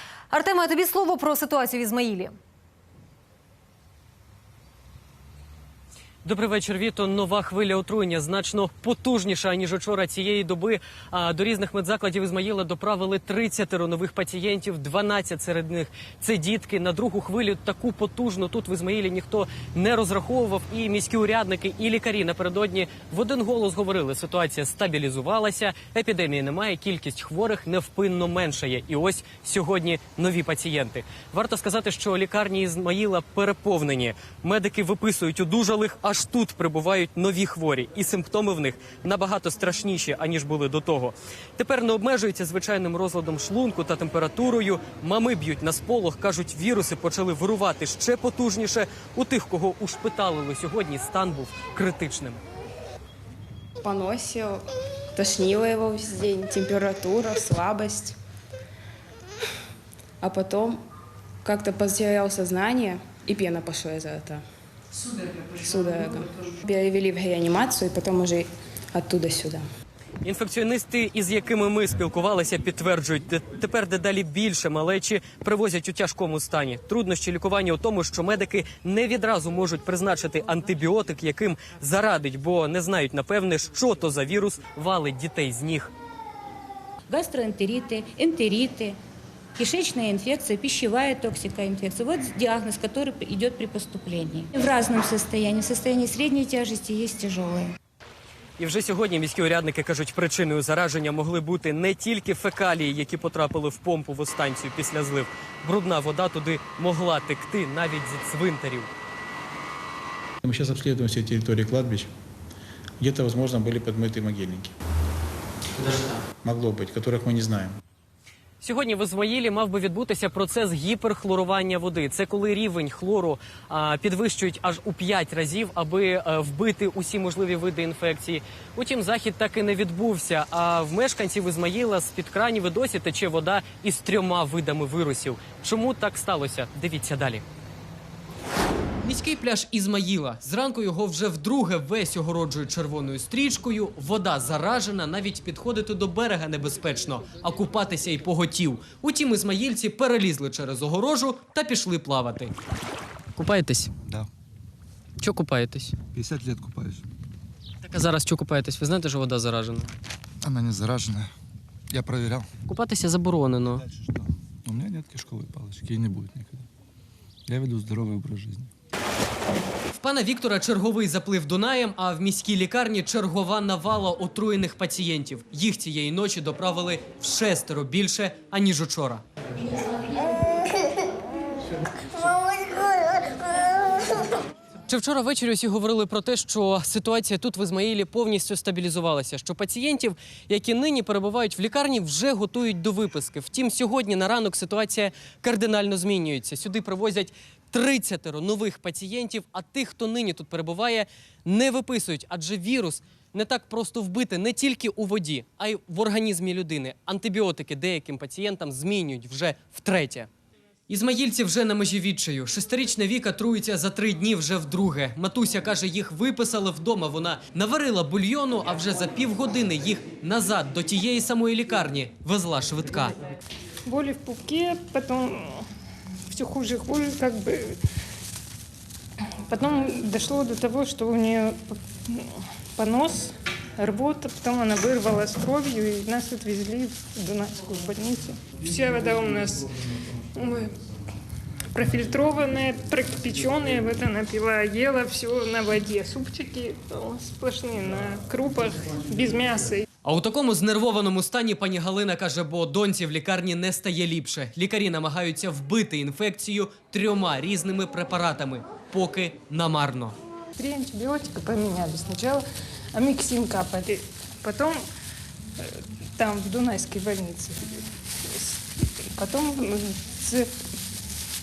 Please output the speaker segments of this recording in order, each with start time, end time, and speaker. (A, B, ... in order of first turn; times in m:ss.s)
0:00.3-0:02.3 A
0:06.2-0:52.4 B
0:53.8-0:54.6 C
0:55.1-0:58.2 C
1:00.2-1:00.8 C
1:01.4-1:04.4 C
1:05.6-1:09.6 C
1:10.2-1:25.9 B
1:27.1-1:29.0 D
1:29.6-1:37.7 D
1:38.6-1:48.9 B
1:50.4-1:52.1 E
1:53.0-1:54.7 E
1:55.8-1:56.2 B
1:56.4-1:57.8 E
1:58.6-2:17.4 B
2:19.0-2:32.5 B
2:33.4-2:33.9 B
2:35.2-2:36.0 B
2:36.1-2:37.0 F
2:37.8-2:39.9 B
2:40.4-2:41.3 F
2:41.9-2:42.5 F
2:42.7-2:43.8 B
2:43.7-2:46.6 F
2:47.5-2:48.7 F
2:49.9-2:59.2 B
3:04.9-3:30.3 B
3:30.9-3:43.2 B
3:43.8-3:45.6 G
3:46.3-3:47.8 G
3:49.5-3:59.7 G
4:00.4-4:00.7 G
4:01.7-4:09.8 G
4:10.0-4:20.2 B
4:20.6-4:24.8 G
4:26.2-4:28.6 G
4:29.2-4:30.5 G